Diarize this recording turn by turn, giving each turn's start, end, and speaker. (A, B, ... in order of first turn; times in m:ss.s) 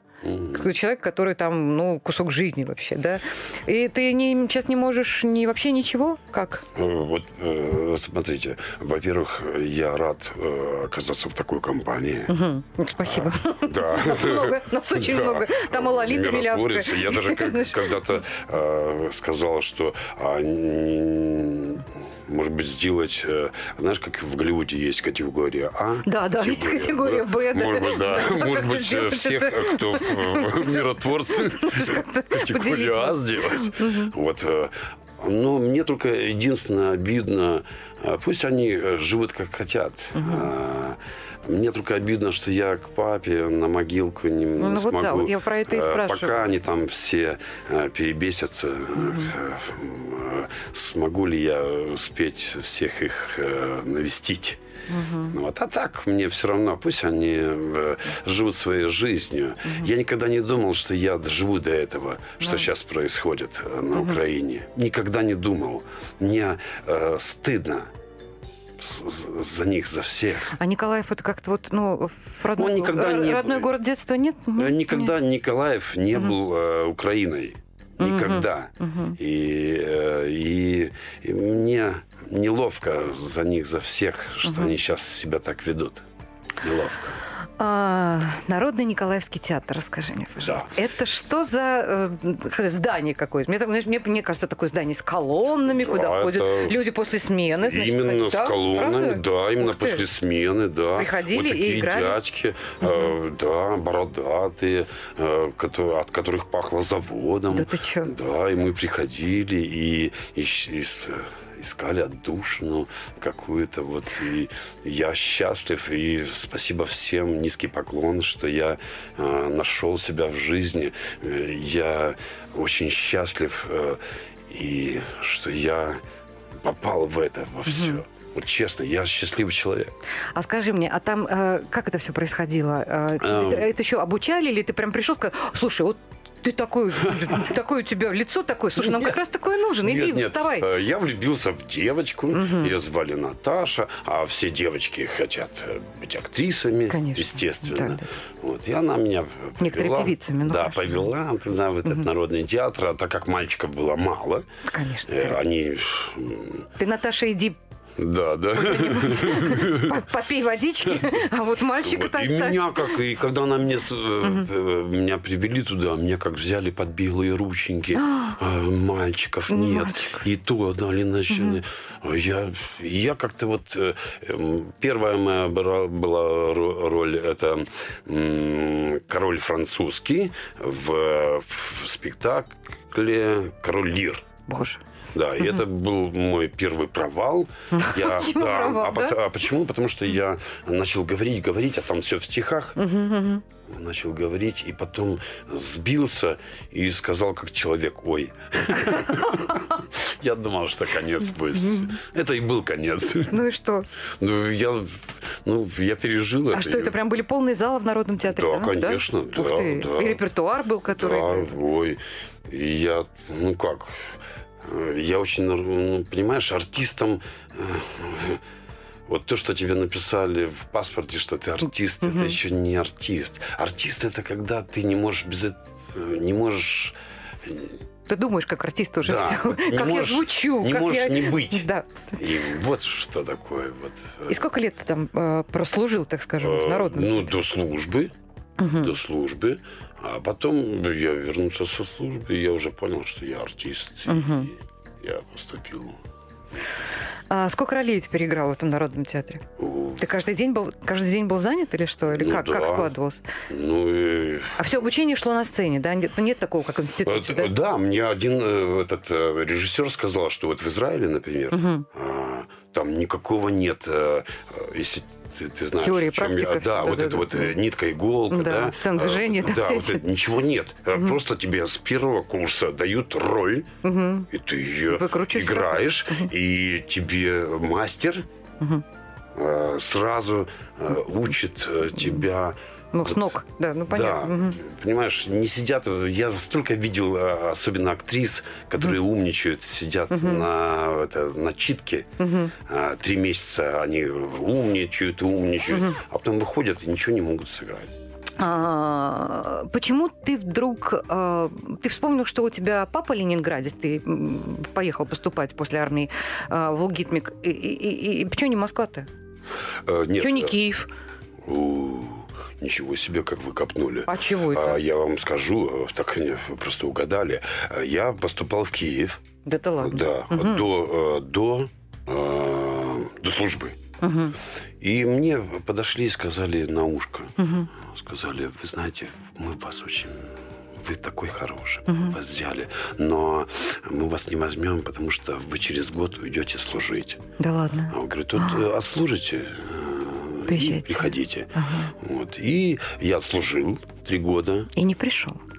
0:00.2-0:00.7 A
0:00.4-0:06.6 B
0:06.7-0:12.4 A
0:12.3-0:17.9 B
0:13.0-0:54.6 A
0:26.0-0:34.1 B
0:40.1-0:40.5 B
0:44.6-0:46.4 B
0:49.0-0:49.3 B
0:54.9-0:55.3 B
0:55.3-1:07.9 A
1:02.4-1:02.7 B
1:03.9-1:04.2 B
1:08.8-1:10.6 A
1:10.5-1:15.1 B
1:12.6-1:13.7 A
1:14.6-1:26.0 A
1:18.0-1:19.2 B
1:24.4-1:24.7 B
1:26.6-1:27.2 A
1:27.6-1:40.0 B
1:30.4-1:30.7 A
1:35.7-1:36.8 A
1:37.6-2:06.0 A
1:41.0-1:42.2 B
1:42.8-1:43.1 B
1:47.5-1:48.1 B
2:06.6-2:09.9 A
2:07.7-2:08.0 B
2:10.3-2:20.7 B
2:13.2-2:13.7 A
2:18.8-2:19.1 A
2:19.8-2:34.5 A
2:22.3-2:22.7 B
2:26.9-2:28.1 B
2:29.6-2:31.1 B
2:34.7-2:35.4 B
2:35.1-2:36.7 A
2:36.8-2:37.6 B
2:38.0-2:40.0 A
2:38.5-2:42.9 B
2:41.8-3:04.3 A
2:44.2-2:44.5 B
2:48.0-2:48.3 B
2:49.5-2:50.2 B
2:51.3-2:51.6 B
3:04.5-3:04.8 B
3:05.1-3:12.8 A
3:07.7-3:09.2 B
3:12.8-3:13.4 B
3:13.6-3:23.4 A
3:19.1-3:19.5 B
3:21.6-3:21.9 B
3:23.3-3:23.9 B
3:24.2-3:27.0 A
3:26.5-3:31.5 B
3:28.2-3:30.2 A
3:30.9-3:38.4 A
3:39.1-3:47.8 A
3:42.0-3:42.4 B
3:48.1-3:52.0 B
3:49.0-3:54.4 A
3:54.3-3:57.3 B
3:56.4-3:58.1 A
3:58.6-3:58.9 B
3:58.7-4:06.0 A
4:04.1-4:04.5 B
4:07.3-4:09.4 B
4:09.6-4:10.1 A
4:10.0-4:13.2 B
4:12.1-4:12.9 A
4:13.5-4:14.6 A
4:14.6-4:17.5 B
4:17.0-4:33.7 A
4:21.5-4:21.9 B
4:25.8-4:27.6 B
4:28.3-4:30.0 B
4:33.8-4:34.3 B
4:34.3-4:38.3 A
4:34.9-4:36.3 B
4:39.3-4:43.4 A
4:42.9-4:44.6 B
4:43.9-4:57.9 A
4:50.1-4:50.4 B
4:52.2-4:52.5 B
4:58.4-5:09.1 B
5:09.8-5:10.5 A
5:10.2-5:10.9 B
5:11.4-5:19.2 A
5:14.1-5:14.8 B
5:19.4-5:20.7 B
5:19.8-5:23.8 A
5:24.0-5:24.4 B
5:24.8-5:30.3 A
5:27.4-5:27.7 B
5:30.8-5:37.2 A
5:31.9-5:32.1 B
5:37.4-5:38.6 B
5:37.9-5:44.7 A
5:40.4-5:41.9 B
5:44.7-5:45.4 B